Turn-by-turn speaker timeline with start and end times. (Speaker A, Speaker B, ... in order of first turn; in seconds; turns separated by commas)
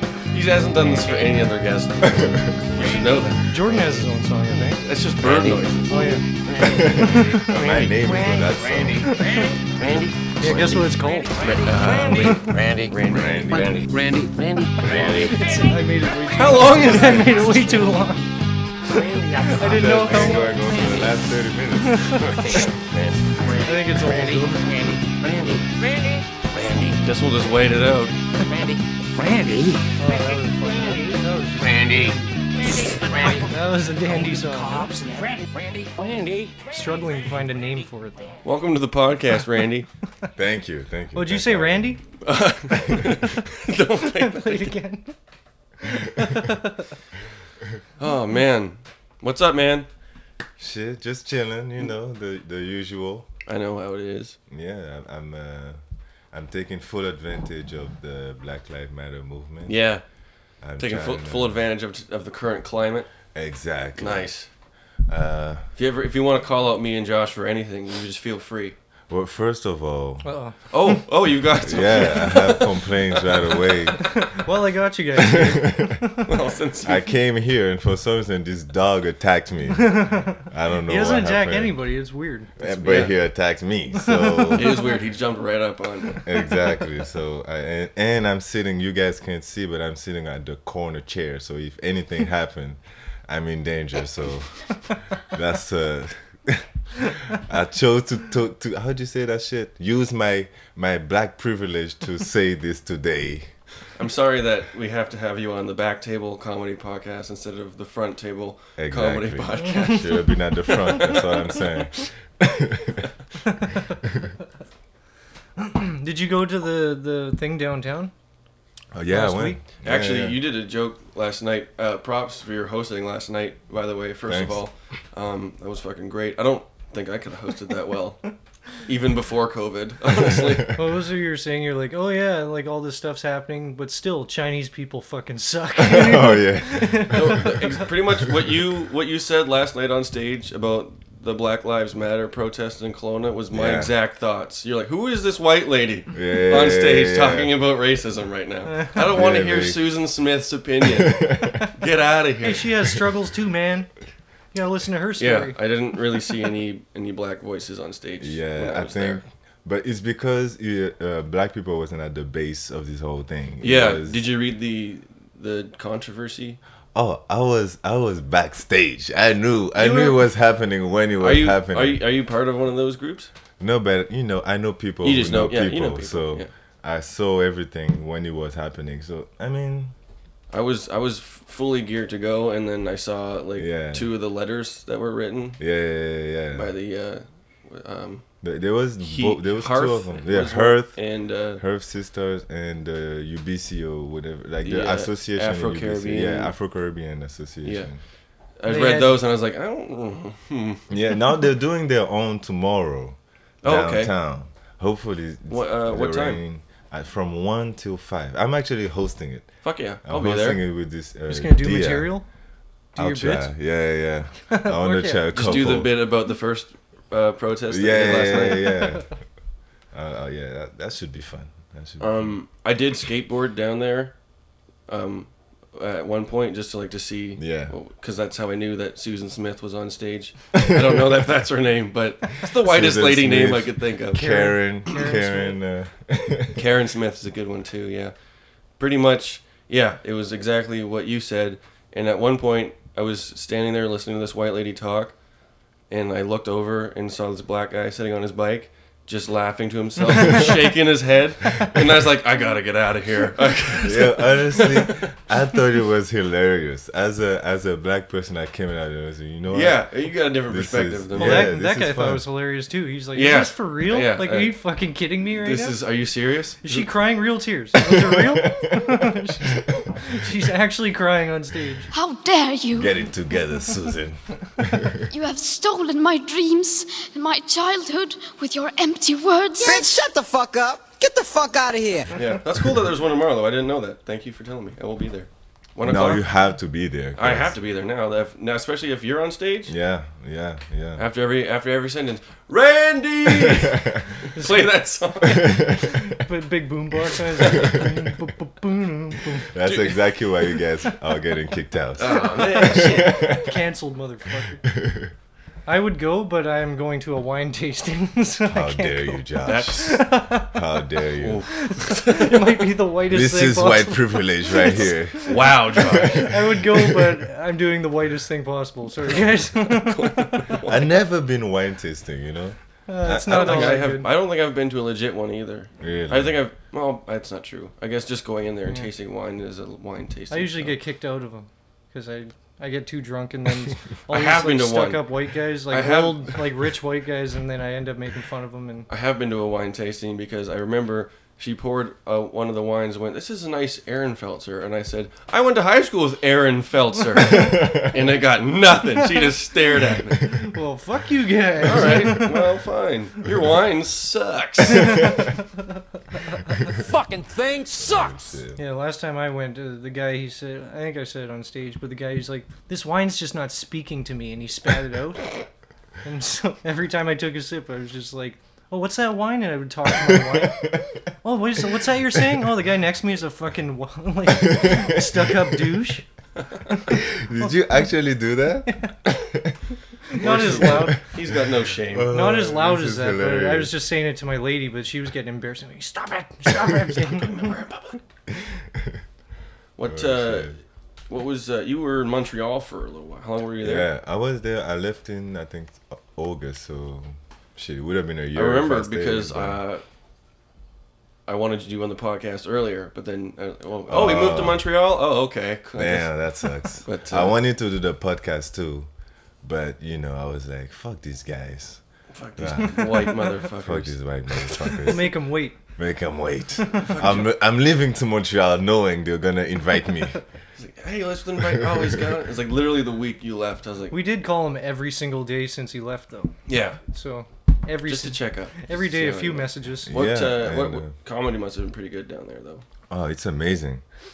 Speaker A: 0.3-3.4, Speaker B: 2.0-2.8, Speaker C: 3.5-4.8, Speaker A: 4.8-6.2, Speaker D: 5.2-15.8, Speaker C: 5.9-6.2, Speaker B: 6.6-9.2, Speaker C: 6.9-7.5, Speaker C: 9.0-9.5, Speaker C: 10.4-11.3, Speaker A: 11.4-12.5, Speaker C: 12.1-12.5, Speaker B: 13.1-13.9, Speaker B: 14.8-15.3, Speaker C: 15.1-18.3, Speaker A: 16.3-17.6, Speaker D: 17.5-17.8, Speaker C: 18.9-20.8, Speaker D: 18.9-21.1, Speaker B: 19.6-22.3, Speaker C: 21.9-22.4, Speaker D: 22.2-27.0, Speaker C: 23.6-25.0, Speaker A: 27.0-28.1, Speaker D: 28.4-29.9, Speaker C: 30.0-34.9, Speaker D: 31.6-33.5, Speaker D: 34.0-36.6, Speaker C: 36.7-38.3, Speaker A: 38.4-39.9, Speaker B: 40.4-42.0, Speaker C: 41.1-42.0, Speaker A: 42.2-44.8, Speaker C: 44.0-45.1, Speaker C: 46.1-46.8, Speaker A: 48.0-49.9, Speaker B: 50.6-53.3, Speaker A: 53.5-54.4, Speaker B: 54.5-55.8, Speaker B: 56.3-59.8, Speaker A: 59.7-60.0, Speaker B: 60.6-61.6, Speaker A: 60.8-63.1, Speaker B: 63.3-64.3, Speaker A: 64.0-64.5, Speaker B: 65.1-65.6, Speaker A: 65.8-68.8, Speaker B: 69.1-70.3, Speaker C: 70.2-70.5, Speaker A: 70.7-72.6, Speaker B: 71.6-74.1, Speaker C: 74.0-76.3, Speaker B: 75.2-76.0, Speaker A: 76.3-77.1, Speaker B: 76.8-81.8, Speaker C: 79.7-83.1, Speaker B: 82.6-84.8, Speaker A: 82.8-83.1, Speaker C: 84.0-84.8, Speaker A: 84.5-86.2, Speaker B: 86.2-94.7, Speaker B: 95.2-103.5, Speaker A: 104.0-110.2, Speaker B: 108.8-113.0, Speaker C: 109.6-111.2, Speaker A: 110.9-111.2, Speaker C: 113.5-113.7, Speaker C: 115.6-118.1, Speaker B: 118.9-120.4, Speaker C: 119.1-119.6, Speaker A: 119.8-128.3, Speaker B: 124.2-124.6, Speaker A: 128.8-130.7, Speaker B: 130.3-130.7, Speaker C: 130.7-137.8, Speaker B: 135.8-137.7, Speaker A: 137.1-152.7, Speaker B: 143.5-143.9, Speaker B: 146.1-147.5, Speaker B: 149.0-149.8, Speaker B: 150.8-151.6, Speaker C: 152.4-153.9, Speaker C: 154.5-155.6, Speaker A: 155.2-159.2, Speaker B: 158.2-164.2, Speaker A: 163.6-166.6, Speaker B: 166.9-172.0, Speaker A: 169.8-170.2, Speaker A: 171.2-173.3, Speaker B: 173.6-179.9, Speaker A: 175.0-176.5, Speaker A: 180.5-185.6, Speaker B: 183.6-184.1, Speaker B: 185.6-186.7, Speaker A: 186.5-188.2, Speaker B: 188.4-191.0, Speaker A: 189.0-191.6, Speaker B: 191.6-198.0, Speaker A: 194.6-196.5, Speaker A: 197.6-197.9, Speaker A: 198.6-200.9, Speaker C: 198.7-199.2, Speaker B: 200.9-209.5, Speaker A: 203.6-204.1, Speaker A: 205.5-206.4, Speaker A: 209.6-210.6, Speaker B: 210.0-212.2, Speaker C: 211.3-212.2, Speaker C: 212.9-213.5, Speaker B: 212.9-216.0, Speaker C: 214.5-215.4, Speaker A: 215.3-218.8, Speaker B: 217.7-219.1, Speaker C: 218.3-219.0, Speaker B: 219.9-222.3, Speaker A: 222.0-224.1, Speaker A: 224.9-234.3, Speaker B: 227.4-227.7, Speaker B: 232.6-236.6, Speaker C: 234.1-235.6, Speaker A: 236.5-238.1, Speaker A: 238.8-245.1, Speaker A: 245.9-254.9, Speaker B: 253.8-259.8, Speaker A: 259.5-261.5, Speaker B: 260.5-262.2, Speaker C: 261.1-265.7, Speaker A: 263.1-264.6, Speaker A: 265.2-266.9, Speaker C: 266.6-271.9, Speaker B: 267.8-269.9, Speaker E: 271.9-273.0, Speaker B: 272.8-275.0, Speaker E: 275.1-279.9, Speaker F: 279.6-282.1, Speaker A: 282.1-286.2, Speaker B: 285.8-287.5, Speaker A: 287.1-289.7, Speaker B: 289.7-291.0, Speaker A: 291.0-295.7, Speaker B: 293.3-294.0, Speaker B: 295.2-296.1, Speaker C: 296.1-299.5, Speaker B: 297.4-298.0, Speaker B: 299.5-303.6, Speaker A: 299.6-300.0, Speaker A: 302.0-303.2, Speaker C: 302.1-304.6, Speaker B: 304.6-305.1, Speaker C: 305.7-310.6, Speaker B: 308.5-311.4, Speaker A: 309.4-310.0, Speaker A: 311.2-312.7, Speaker C: 311.5-314.9, Speaker B: 313.1-317.2, Speaker A: 315.2-316.3, Speaker C: 316.0-320.5, Speaker A: 319.7-320.9, Speaker B: 320.6-323.8, Speaker C: 322.9-324.1, Speaker A: 323.2-330.8, Speaker B: 325.8-326.4, Speaker C: 330.3-338.9, Speaker A: 334.1-335.1, Speaker A: 335.7-336.3, Speaker A: 338.9-350.4, Speaker B: 347.3-347.9, Speaker C: 350.3-352.4, Speaker A: 351.6-355.2, Speaker C: 354.7-355.3, Speaker D: 356.8-358.2, Speaker B: 357.8-358.6, Speaker C: 358.6-365.3, Speaker C: 366.0-370.7, Speaker B: 370.0-370.8, Speaker C: 371.2-376.1, Speaker B: 374.3-375.8, Speaker B: 376.9-379.5, Speaker C: 378.7-378.9, Speaker C: 380.1-381.0, Speaker B: 380.2-383.7, Speaker A: 380.2-382.1, Speaker C: 382.1-387.6, Speaker A: 387.1-387.9, Speaker B: 388.6-389.0, Speaker A: 389.8-390.5, Speaker B: 389.9-390.5, Speaker A: 391.1-393.9, Speaker B: 393.6-399.6, Speaker A: 398.3-399.8, Speaker A: 401.3-406.1, Speaker B: 403.9-404.6, Speaker B: 405.8-408.9, Speaker A: 406.8-407.4, Speaker B: 409.4-411.8, Speaker A: 412.1-413.9, Speaker B: 412.4-420.2, Speaker C: 414.8-415.6, Speaker A: 416.8-417.3, Speaker A: 420.6-424.0, Speaker B: 421.6-421.9, Speaker C: 423.9-426.3, Speaker A: 426.5-426.8, Speaker C: 426.9-430.0, Speaker A: 427.9-432.6, Speaker B: 429.9-430.9, Speaker B: 432.9-433.8